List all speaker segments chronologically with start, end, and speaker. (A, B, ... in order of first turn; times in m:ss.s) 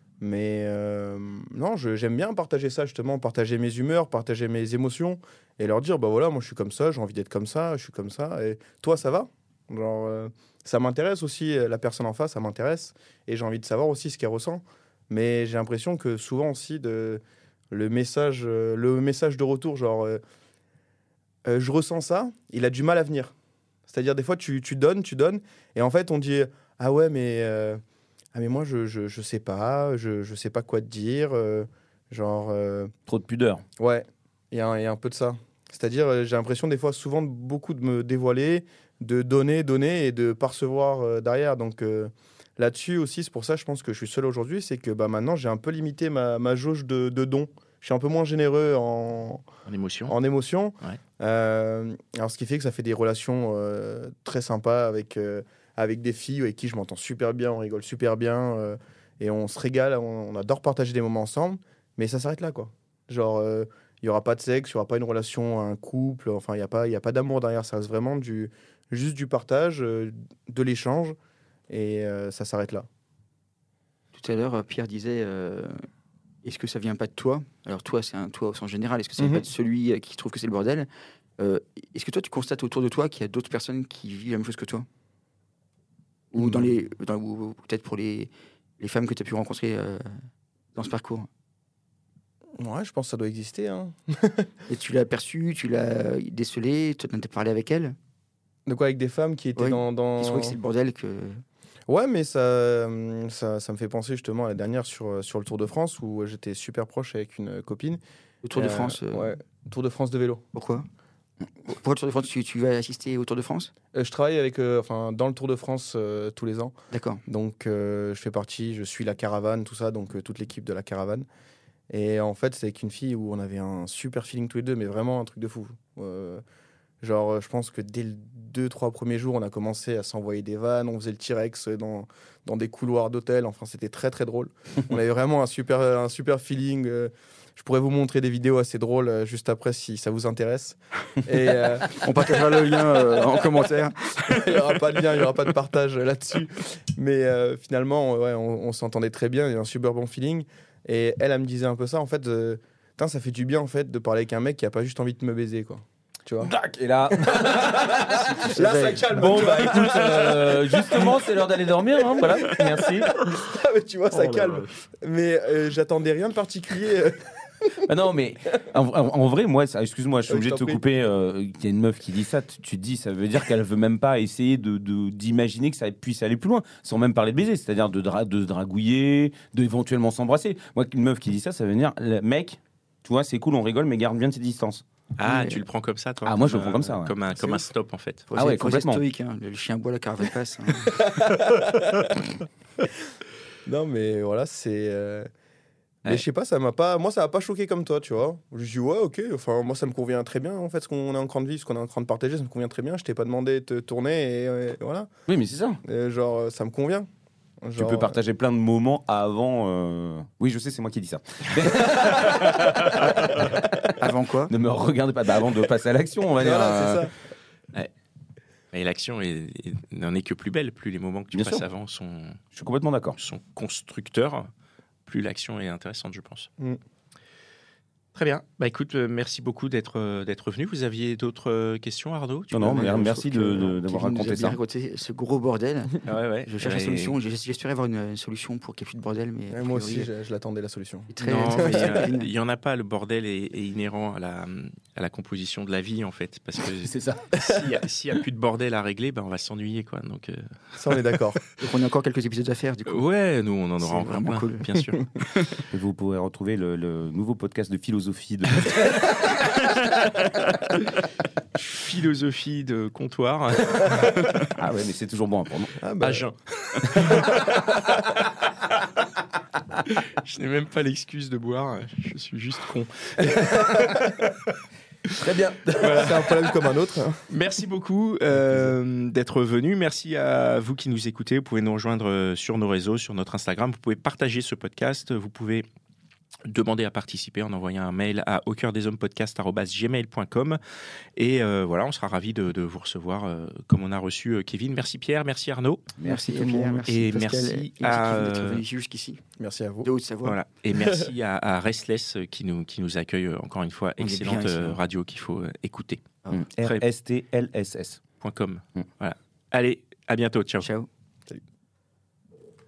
0:00.2-0:20.2 A
0:21.4-0:23.3 A
0:23.9-0:27.8 A
0:28.3-0:32.9 A
0:33.1-0:33.6 B
0:33.8-0:49.4 A
0:49.7-0:50.1 C
0:50.1-1:11.2 A
1:11.7-1:12.9 A
1:14.1-1:15.8 D
1:16.4-1:24.9 D
1:19.2-1:19.4 A
1:26.3-1:30.1 D
1:26.3-1:26.6 A
1:30.7-1:31.3 D
1:32.6-1:34.5 A
1:34.7-1:38.0 D
1:38.6-1:40.6 A
1:39.6-1:41.4 D
1:41.9-1:48.0 A
1:48.4-1:49.3 D
1:48.6-1:50.4 A
1:50.5-1:50.9 D
1:51.6-1:53.7 D
1:53.9-1:56.7 A
1:56.9-1:57.2 D
1:57.2-2:01.2 A
2:01.9-2:06.4 A
2:07.0-2:22.0 A
2:21.9-2:24.3 D
2:24.2-2:36.5 A
2:36.4-2:43.1 B
2:37.1-2:41.2 A
2:38.5-2:39.1 D
2:42.0-2:47.8 A
2:47.9-3:04.8 B
2:50.3-2:50.8 A
3:05.2-3:08.3 C
3:05.2-3:05.6 D
3:06.2-3:07.2 B
3:08.3-3:10.9 D
3:08.4-3:09.0 B
3:10.9-3:12.1 A
3:13.6-3:15.3 A
3:16.0-3:25.1 A
3:25.3-3:25.8 B
3:25.8-3:27.1 A
3:27.6-3:28.2 A
3:27.8-3:33.6 B
3:34.0-3:34.5 D
3:34.5-3:37.1 B
3:36.4-3:37.1 A
3:38.7-3:42.4 C
3:41.3-3:41.6 B
3:42.5-3:43.2 B
3:43.2-3:44.5 C
3:45.0-3:46.5 C
3:48.1-3:52.8 C
3:52.5-3:54.6 B
3:52.6-4:00.1 D
3:56.0-3:57.1 C
3:59.5-4:02.0 A
4:01.1-4:02.3 D
4:01.2-4:11.2 C
4:06.8-4:07.2 B
4:10.8-4:11.4 A
4:11.6-4:13.0 D
4:12.8-4:15.0 C
4:13.8-4:14.7 D
4:15.7-4:19.2 B
4:19.6-4:20.9 C
4:21.5-4:24.5 C
4:24.5-4:25.8 B
4:25.8-4:26.2 A
4:26.0-4:28.4 C
4:27.0-4:27.3 A
4:29.9-4:34.5 C
4:33.2-4:34.0 B
4:35.2-4:36.1 B
4:35.8-4:36.5 C
4:35.9-4:37.2 A
4:37.3-4:45.6 C
4:38.3-4:38.7 B
4:46.5-4:50.6 C
4:51.2-4:55.9 C
4:56.0-4:56.8 B
4:56.0-4:59.2 D
4:56.9-4:58.6 C
4:59.4-4:59.9 A
4:59.8-5:00.4 D
5:00.2-5:06.0 C
5:00.7-5:01.0 A
5:04.0-5:04.8 D
5:06.3-5:08.0 B
5:08.2-5:10.7 C
5:10.6-5:10.9 D